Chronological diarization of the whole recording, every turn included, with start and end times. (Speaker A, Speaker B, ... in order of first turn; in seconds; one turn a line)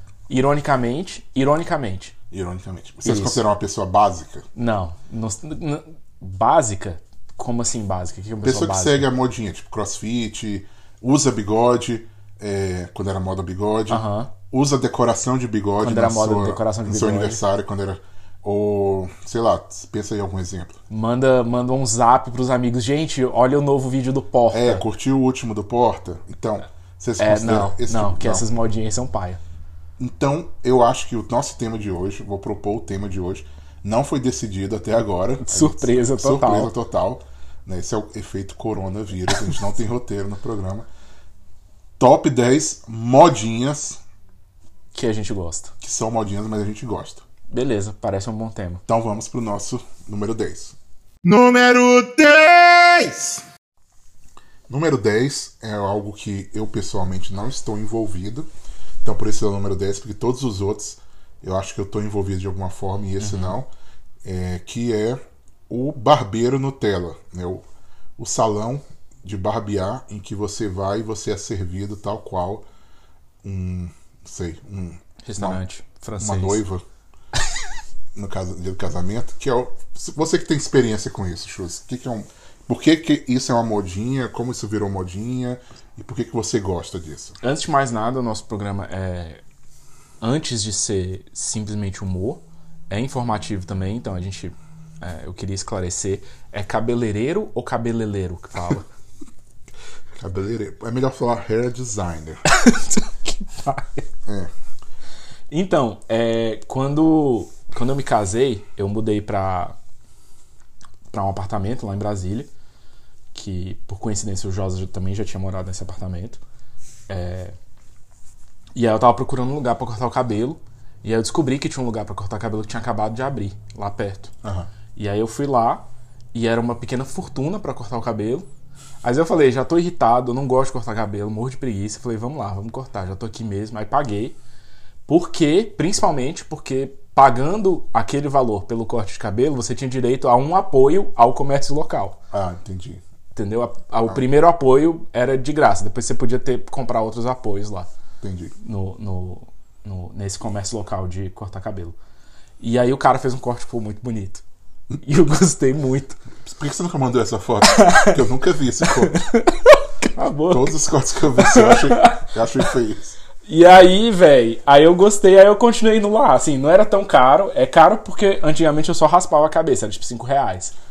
Speaker A: 0.3-2.1
Speaker B: 2.3-4.5
Speaker A: 3.0-3.4
Speaker A: 4.5-9.1
Speaker B: 8.4-20.8
Speaker A: 13.9-14.3
Speaker A: 15.8-17.4
Speaker A: 20.9-24.8
Speaker B: 24.5-28.5
Speaker A: 27.2-29.4
Speaker B: 30.0-40.9
Speaker A: 35.4-36.7
Speaker B: 42.0-44.0
Speaker A: 44.9-45.7
Speaker B: 45.8-47.2
Speaker A: 47.5-48.8
Speaker B: 48.9-53.4
Speaker B: 54.7-58.5
Speaker B: 59.0-63.7
Speaker A: 63.2-63.6
Speaker B: 64.2-67.7
Speaker B: 68.2-72.7
Speaker B: 73.4-75.6
Speaker A: 75.2-76.6
Speaker B: 76.2-76.8
Speaker B: 78.2-87.4
Speaker A: 87.4-89.4
Speaker A: 90.2-98.9
Speaker B: 100.2-102.4
Speaker A: 102.5-104.1
Speaker B: 104.3-104.5
Speaker A: 105.5-109.8
Speaker A: 111.1-112.5
Speaker A: 113.3-116.4
Speaker A: 117.1-117.6
Speaker A: 118.8-124.3
Speaker B: 124.4-124.7
Speaker A: 124.9-128.5
Speaker A: 129.0-134.4
Speaker A: 135.1-142.2
Speaker B: 142.3-143.0
Speaker A: 143.3-147.9
Speaker B: 148.2-148.5
Speaker A: 148.6-152.0
Speaker A: 152.6-154.4
Speaker A: 155.0-156.2
Speaker B: 156.4-159.2
Speaker A: 157.7-158.2
Speaker A: 159.0-160.8
Speaker B: 160.5-163.2
Speaker A: 161.4-162.3
Speaker A: 163.5-170.8